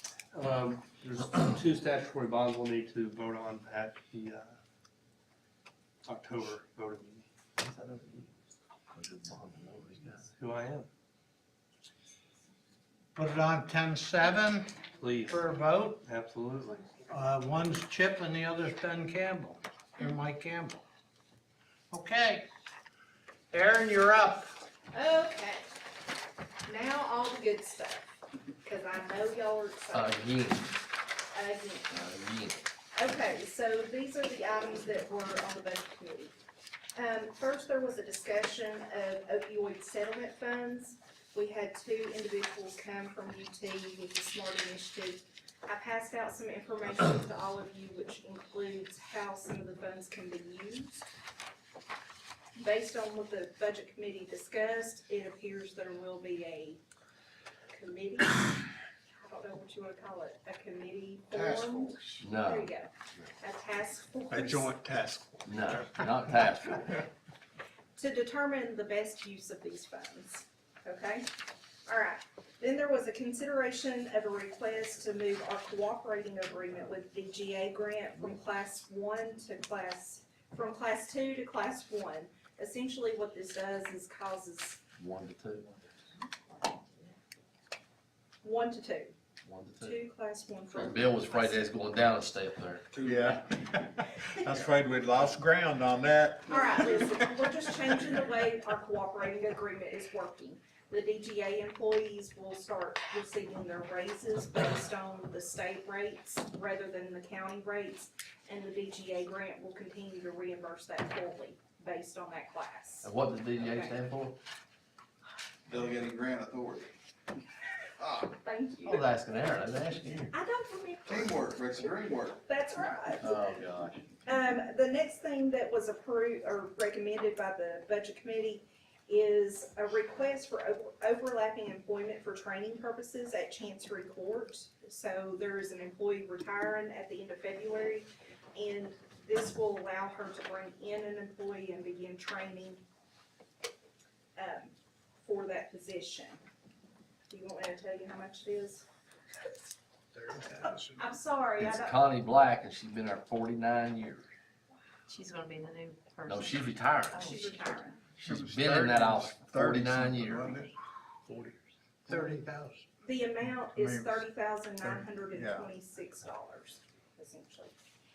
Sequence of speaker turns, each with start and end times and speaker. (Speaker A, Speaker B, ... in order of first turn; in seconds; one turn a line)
Speaker A: 0.3-4.6
Speaker A: 6.0-7.3
Speaker B: 7.6-8.3
Speaker B: 8.9-10.3
Speaker A: 10.4-10.9
Speaker C: 13.2-14.7
Speaker A: 15.0-15.4
Speaker C: 15.3-16.0
Speaker A: 16.0-16.9
Speaker C: 17.1-20.8
Speaker C: 21.9-22.5
Speaker C: 23.5-24.6
Speaker D: 24.9-25.7
Speaker D: 26.6-30.3
Speaker B: 29.9-30.7
Speaker D: 31.3-32.0
Speaker B: 31.9-32.7
Speaker D: 33.0-36.3
Speaker D: 37.0-51.0
Speaker D: 52.5-56.8
Speaker D: 57.7-58.6
Speaker D: 59.2-64.7
Speaker E: 61.3-62.2
Speaker B: 62.2-62.7
Speaker F: 64.3-66.2
Speaker B: 65.5-67.1
Speaker D: 68.0-71.3
Speaker D: 71.9-84.8
Speaker B: 85.0-85.7
Speaker D: 88.4-89.2
Speaker B: 89.4-90.0
Speaker D: 89.8-91.8
Speaker B: 90.7-92.9
Speaker E: 92.9-93.4
Speaker F: 93.0-97.3
Speaker D: 96.5-114.0
Speaker B: 113.0-114.4
Speaker E: 115.7-116.9
Speaker E: 118.0-118.3
Speaker D: 118.3-119.1
Speaker B: 118.8-120.3
Speaker D: 120.3-123.4
Speaker E: 121.1-122.4
Speaker B: 123.2-124.1
Speaker D: 124.2-142.8
Speaker D: 144.4-146.4
Speaker D: 147.3-148.8
Speaker D: 150.6-152.1
Speaker B: 151.6-154.3
Speaker G: 155.1-157.4
Speaker B: 156.2-157.3
Speaker D: 157.2-158.0
Speaker B: 158.2-160.7
Speaker F: 158.2-160.7
Speaker F: 162.1-162.3
Speaker C: 162.1-162.8
Speaker D: 163.0-167.7
Speaker F: 163.6-164.2
Speaker F: 164.8-165.7